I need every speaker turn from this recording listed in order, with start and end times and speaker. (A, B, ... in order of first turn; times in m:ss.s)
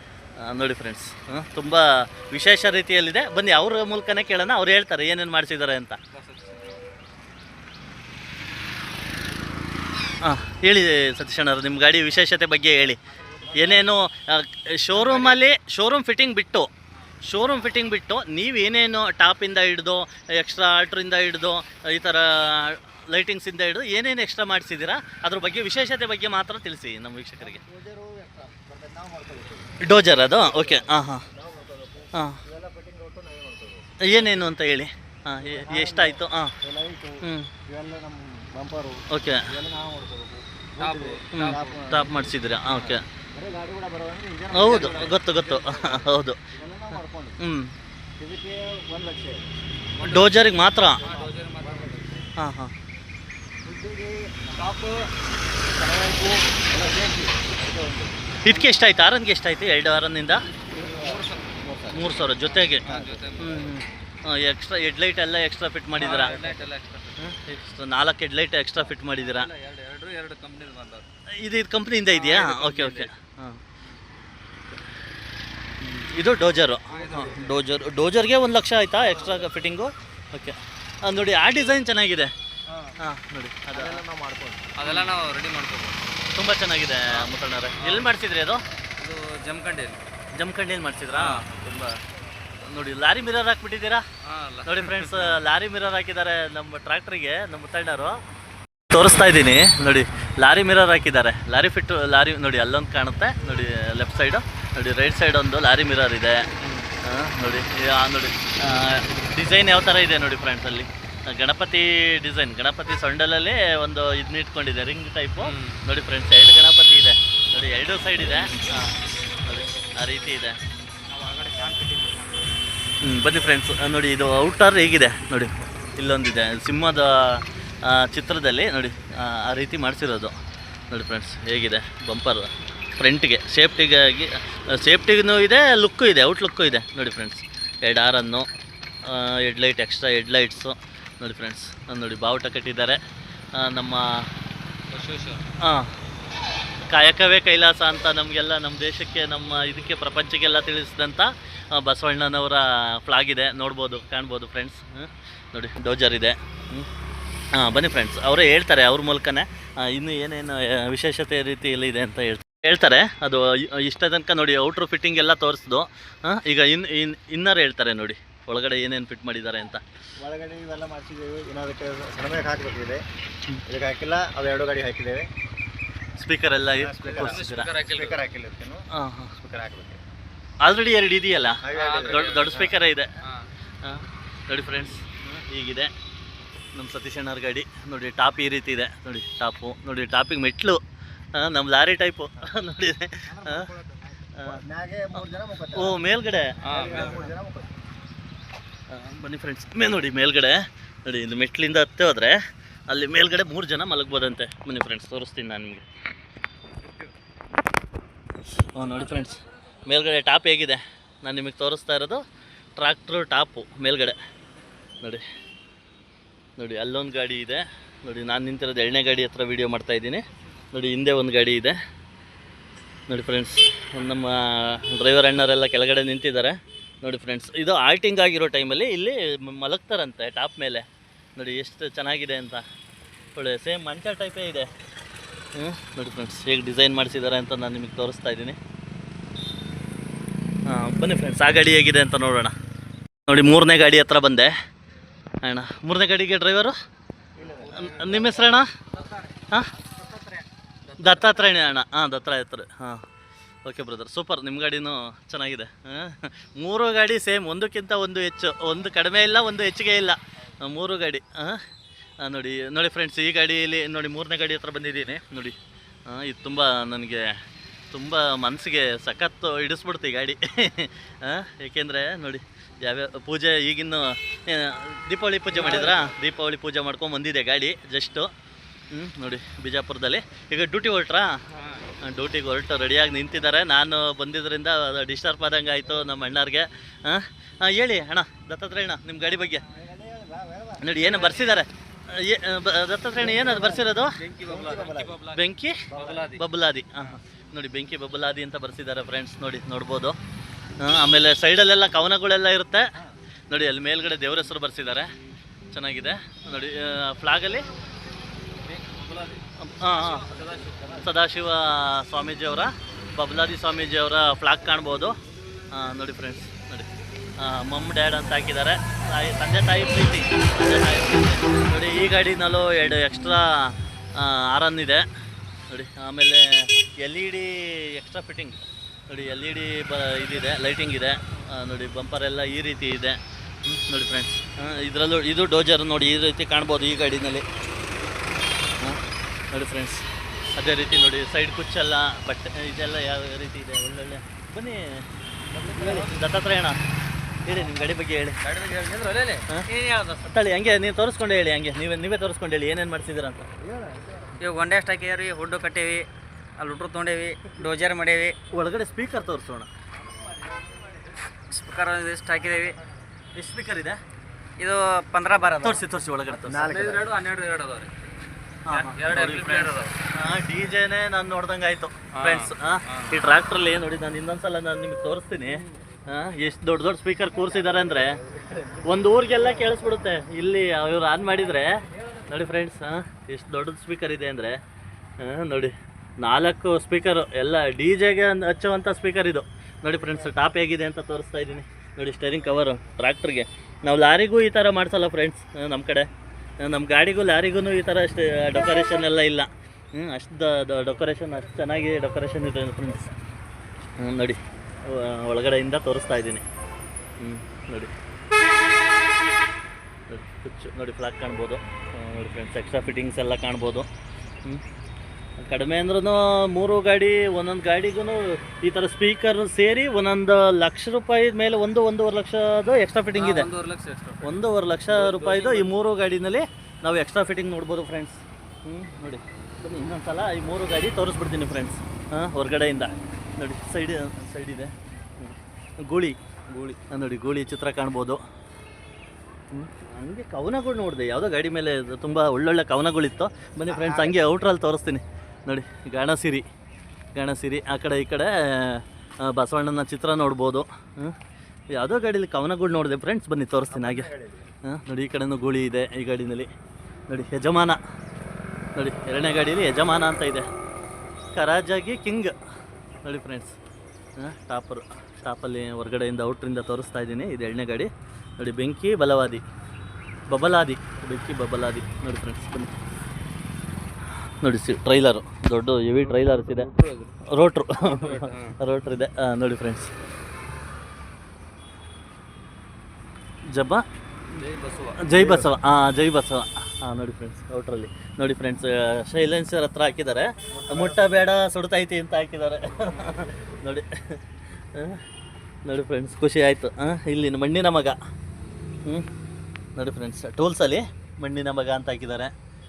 0:00.4-0:06.0 A
0:06.1-0:06.8 B
0:10.2-0:16.7 A
0:13.2-0:13.8 B
0:14.9-0:15.4 B
0:17.2-0:27.6 A
0:27.4-0:29.8 C
0:29.8-0:31.3 A
0:30.4-0:34.0 C
0:32.1-0:32.4 A
0:34.0-0:36.6 A
0:35.4-0:47.4 C
0:37.2-0:37.5 A
0:39.1-0:39.5 A
0:40.8-0:41.8 B
0:41.3-0:43.0 A
0:44.5-0:46.4 A
0:44.6-0:45.2 B
0:47.4-0:47.7 A
0:48.2-0:50.2 C
0:50.0-0:50.4 B
0:50.0-0:51.0 A
0:50.9-0:52.3 B
0:51.0-0:52.1 C
0:52.4-0:52.7 A
0:53.6-0:54.8 C
0:54.6-0:55.1 B
0:55.7-0:58.2 C
0:58.4-1:00.4 A
1:00.7-1:02.0 C
1:00.8-1:01.6 B
1:01.9-1:06.4 A
1:02.3-1:03.7 B
1:02.8-1:03.6 C
1:06.0-1:07.2 B
1:06.1-1:06.7 C
1:07.2-1:09.5 A
1:09.0-1:11.0 B
1:11.4-1:13.6 A
1:12.1-1:13.1 B
1:15.8-1:22.3 A
1:16.9-1:17.6 B
1:17.0-1:17.4 C
1:22.7-1:23.0 B
1:23.0-1:24.0 A
1:23.7-1:24.7 C
1:24.8-1:26.0 B
1:24.8-1:25.1 A
1:26.3-1:28.6 A
1:27.1-1:28.1 B
1:29.0-1:30.0 B
1:30.3-1:32.0 A
1:31.1-1:31.4 B
1:32.6-1:34.0 A
1:34.2-1:35.4 B
1:34.6-1:38.2 A
1:38.9-1:46.5 A
1:46.6-1:46.9 B
1:47.0-2:00.6 A
1:55.4-1:55.8 B
2:01.1-2:02.5 B
2:03.0-2:10.4 A
2:10.9-2:18.5 A
2:19.0-2:23.0 A
2:23.6-2:24.3 A
2:24.9-2:25.4 B
2:25.6-2:25.9 A
2:26.9-2:36.9 A
2:37.5-2:49.8 A
2:50.2-2:53.0 C
2:53.7-2:55.3 C
2:56.2-2:57.7 A
2:56.7-2:58.8 C
2:57.1-2:58.2 B
2:58.9-2:59.4 A
2:59.4-3:00.0 C
3:00.6-3:03.2 A
3:01.6-3:02.7 C
3:01.7-3:03.5 B
3:03.8-3:05.9 A
3:06.7-3:10.8 A
3:11.4-3:13.7 A
3:13.3-3:16.0 C
3:14.4-3:14.6 A
3:15.2-3:16.6 A
3:16.6-3:17.3 B
3:16.6-3:17.8 C
3:18.9-3:25.8 A
3:28.7-3:32.2 A
3:32.8-3:34.2 A
3:36.6-3:41.8 A
3:43.1-3:50.8 A
3:51.4-3:52.6 A
3:53.4-3:54.7 A
3:55.6-3:58.6 A
4:00.7-4:02.5 A
4:03.3-4:04.5 A
4:05.4-4:06.8 A
4:07.4-4:08.0 C
4:07.4-4:09.2 B
4:07.7-4:08.7 A
4:10.9-4:11.5 B
4:11.0-4:13.0 A
4:13.6-4:21.6 A
4:22.2-4:27.3 A
4:27.9-4:38.3 A
4:35.5-4:36.1 B
4:35.6-4:36.0 C
4:38.9-4:41.4 A
4:41.6-4:41.9 B
4:42.0-4:49.7 A
4:49.7-4:50.9 C
4:50.8-4:54.2 A
4:51.0-4:51.6 B
4:53.2-4:53.9 C
4:53.7-4:55.4 B
4:54.4-4:55.2 C
4:55.3-5:00.2 A
4:55.9-4:56.3 C
4:55.9-4:56.4 B
5:00.8-5:02.9 A
5:03.5-5:05.1 A
5:05.7-5:07.7 A
5:08.6-5:11.0 B
5:09.6-5:10.3 A
5:10.8-5:11.1 C
5:11.0-5:15.1 A
5:15.7-5:25.1 A
5:25.7-5:37.4 A
5:39.5-5:40.0 A
5:40.6-5:45.0 A
5:45.5-5:46.2 B
5:45.6-5:46.8 A
5:47.4-5:48.4 A
5:48.4-5:50.3 B
5:50.2-5:53.5 A
5:53.6-5:54.3 C
5:54.4-5:56.1 B
5:56.6-5:58.4 B
5:58.5-5:59.7 A
6:01.5-6:02.8 B
6:03.4-6:04.0 A
6:04.6-6:08.0 B
6:05.6-6:06.7 A
6:06.5-6:07.1 C
6:08.7-6:18.2 A
6:08.7-6:10.0 B
6:12.1-6:13.1 B
6:18.4-6:18.8 C
6:18.8-6:24.6 A
6:25.2-6:36.1 A
6:36.6-6:43.1 A
6:44.0-6:46.4 A
6:47.2-6:47.9 A
6:50.1-6:53.9 A
6:55.4-7:03.5 A
7:03.2-7:04.4 B
7:04.2-7:18.2 A
7:04.9-7:05.7 B
7:19.5-7:26.4 A
7:23.7-7:24.2 C
7:27.2-7:31.2 A
7:31.7-7:34.1 A
7:33.7-7:34.5 C
7:34.6-7:36.5 A
7:37.1-7:37.8 A
7:38.8-7:40.5 A
7:41.4-7:42.4 A
7:43.0-7:43.6 A
7:44.2-7:49.4 A
7:50.3-7:52.7 A
7:54.4-7:56.7 A
7:55.9-7:57.2 B
7:57.3-7:59.9 A
7:57.9-7:58.6 B
8:03.5-8:03.8 A
8:04.3-8:05.5 B
8:05.0-8:15.0 A
8:10.6-8:11.0 B
8:15.6-8:18.0 A
8:19.8-8:22.3 A